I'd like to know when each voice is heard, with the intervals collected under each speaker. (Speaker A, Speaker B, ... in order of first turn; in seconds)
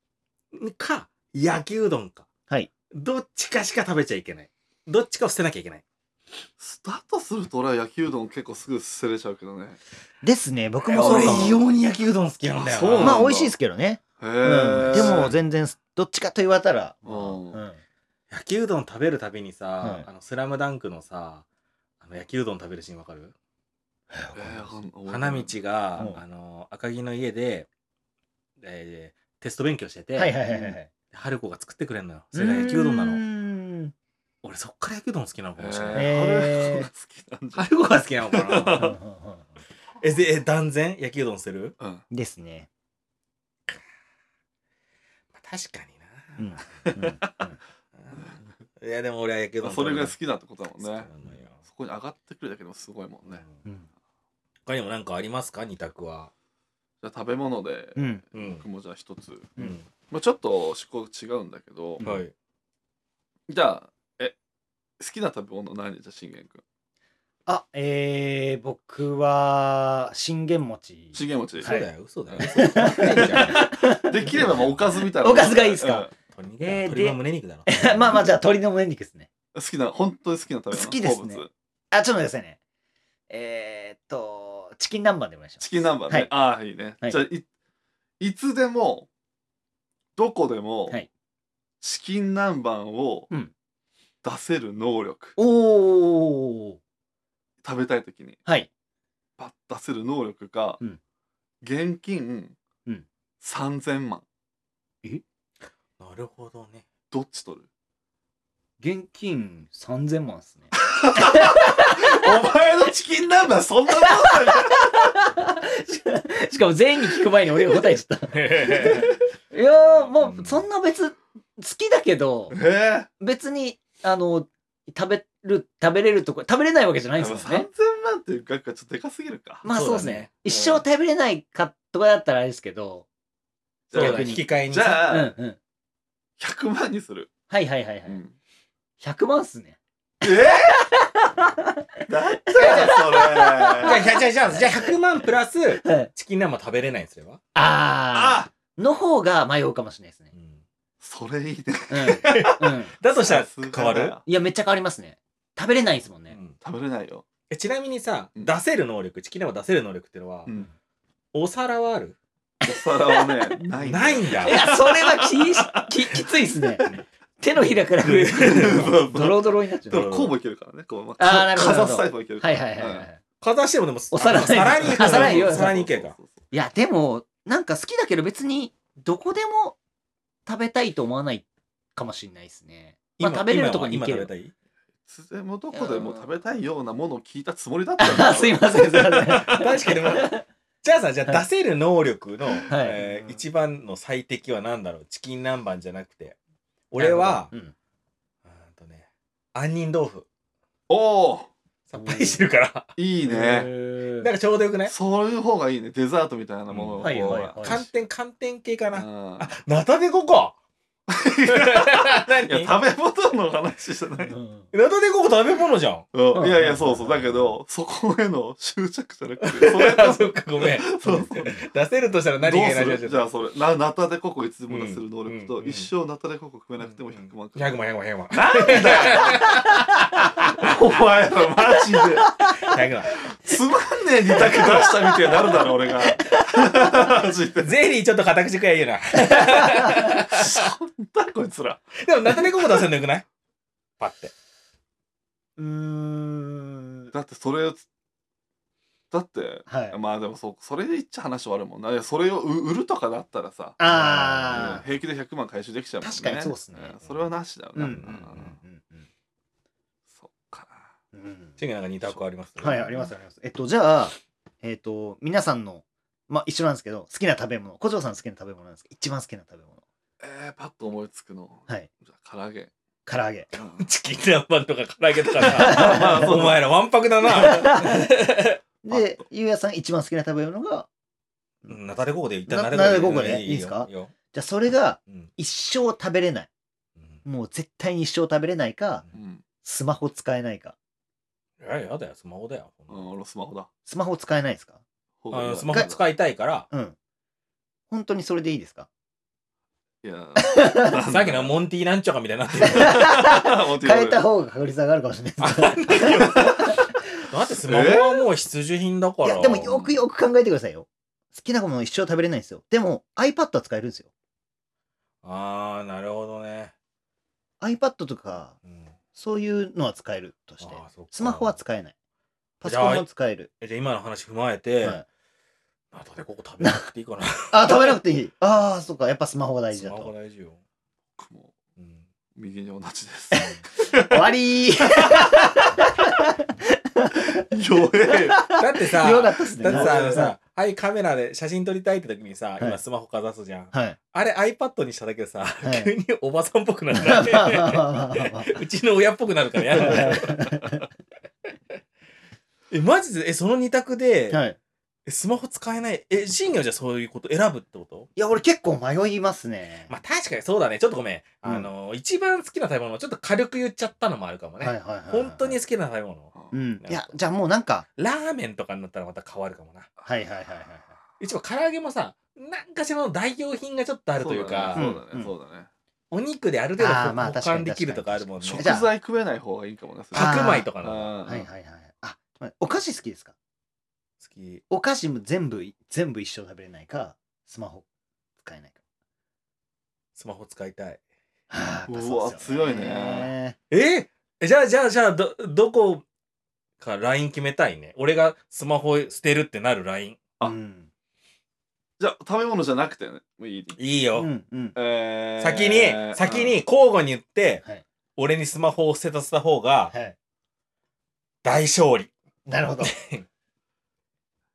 Speaker A: 0.5-2.3, 2.9-5.8, 10.9-13.2, 14.9-15.2, 18.3-21.4, 22.0-23.3, 25.1-27.7, 28.6-33.2, 34.4-36.2, 37.6-39.0, 40.0-41.8, 45.3-47.0, 48.8-50.2, 50.8-51.6, 53.3-53.6, 54.6-56.3, 58.3-58.6, 59.6-59.9, 62.0-62.3, 71.6-73.8, 74.3-74.8, 76.3-78.3, 106.0-106.8, 118.3-119.2, 119.8-120.7, 129.7-130.3, 133.9-135.1, 143.8-147.4, 150.3-150.6, 152.3-154.2, 156.3-156.6, 157.5-160.5, 161.3-162.2, 163.8-164.6, 167.6-168.9, 169.9-170.3, 173.4-176.2, 183.2-184.5, 189.3-196.4, 196.9-197.5, 198.5-200.2, 201.9-204.9, 206.7-210.6, 211.5-212.7, 214.7-216.1, 219.4-223.3, 224.7-225.9, 226.8-230.5, 232.6-233.2, 237.6-240.4, 242.0-243.2, 244.0-244.3, 253.9-254.8, 257.9-258.2, 261.6-263.0, 273.6-278.6, 281.6-284.1, 291.6-293.1, 295.3-296.7, 301.1-303.1, 305.4-309.8, 315.2-316.7, 320.6-321.6, 322.6-323.1, 323.6-325.0, 325.9-328.0, 329.7-330.6, 331.8-332.0, 338.6-350.8, 352.7-354.4, 355.1-358.1, 359.9-367.2, 368.0-369.9, 371.2-374.9, 376.1-378.8, 380.1-381.1, 384.2-384.6, 390.1-391.0, 393.7-396.0, 396.8-400.2, 403.8-404.3, 405.4-407.6, 408.2-409.9, 411.4-412.1, 412.8-413.2
Speaker B: 6.6-9.8, 10.9-11.6, 12.6-13.6, 14.2-15.4, 17.0-17.6, 24.4-25.6, 35.6-37.7, 38.3-39.0, 41.8-42.0, 49.6-51.1, 51.7-53.4, 57.0-59.5, 60.1-62.0, 63.5-64.4, 65.0-66.6, 71.1-76.1, 79.5-81.5, 85.6-87.5, 88.2-89.1, 90.2-91.0, 91.8-93.3, 94.2-95.4, 97.6-98.4, 99.4-100.8, 101.6-102.6, 103.4-104.2, 107.1-107.7, 110.8-114.9, 122.5-123.1, 127.2-129.6, 130.5-130.8, 133.9-135.4, 136.4-137.3, 138.1-138.3, 140.2-140.8, 142.1-144.0, 148.1-148.5, 151.0-154.2, 156.6-157.2, 160.5-160.7, 162.6-166.0, 168.3-173.1, 174.2-176.4, 185.1-189.2, 200.9-201.5, 203.0-203.7, 204.9-207.9, 208.9-209.5, 211.1-214.3, 216.1-221.4, 222.4-229.5, 230.5-232.3, 233.2-237.7, 240.3-242.8, 247.1-247.9, 249.1-253.8, 254.5-258.6, 260.1-260.9, 270.2-272.7, 273.5-273.9, 275.4-276.6, 289.1-289.4, 292.9-293.7, 295.2-296.0, 300.0-301.6, 302.6-304.2, 307.7-308.2, 309.7-310.0, 331.2-331.5, 332.4-334.3, 335.0-335.4, 337.4-338.6, 339.6-340.2, 349.9-350.2, 374.2-375.7, 378.4-381.5, 391.9-393.3, 402.0-403.8, 404.8-406.6
Speaker C: 10.2-11.6, 13.0-17.8, 19.8-20.1, 24.1-24.7, 26.0-26.2, 30.1-30.9, 32.3-33.9, 35.9-36.9, 38.6-39.5, 42.1-42.7, 46.4-47.6, 53.6-53.9, 58.0-58.2, 62.0-62.2, 67.5-76.1, 76.6-79.3, 80.7-82.6, 83.3-86.3, 95.4-96.8, 108.8-112.1, 114.0-122.6, 123.2-127.7, 129.6-133.1, 133.9-135.6, 137.5-138.2, 139.0-140.3, 140.8-144.9, 147.6-150.3, 151.9-152.9, 154.2-156.4, 162.7-163.6, 164.4-170.1, 171.2-173.2, 174.1-175.8, 176.5-179.8, 180.5-184.3, 185.7-186.3, 188.0-190.4, 192.7-193.4, 197.0-197.7, 202.0-202.4, 204.0-204.3, 207.0-207.8, 214.3-214.7, 216.3-217.2, 221.1-221.6, 231.9-232.7, 234.4-236.3, 245.6-247.1, 249.7-250.0, 253.8-254.9, 256.0-257.0, 257.8-259.1, 261.1-261.6, 262.6-269.8, 273.1-273.5, 275.4-276.3, 277.3-278.1, 278.9-280.9, 282.4-286.5, 287.2-289.1, 289.6-290.8, 293.9-294.8, 295.7-296.0, 296.7-297.0, 297.9-298.9, 300.5-301.0, 302.6-306.8, 309.2-314.1, 317.6-318.6, 319.1-321.9, 322.6-323.5, 327.5-330.1, 333.3-336.4, 336.9-337.4, 338.3-340.4, 343.7-344.0, 345.6-345.9, 346.9-348.5, 349.8-350.6, 354.3-354.6, 358.1-359.9, 361.4-361.7, 364.6-365.6, 366.5-367.9, 370.1-371.0, 374.7-375.3, 376.8-378.9, 380.1-380.7, 381.2-383.4, 384.7-387.9, 388.4-388.8, 391.5-393.6, 400.4-400.9, 404.1-404.8, 409.9-410.1, 412.5-413.0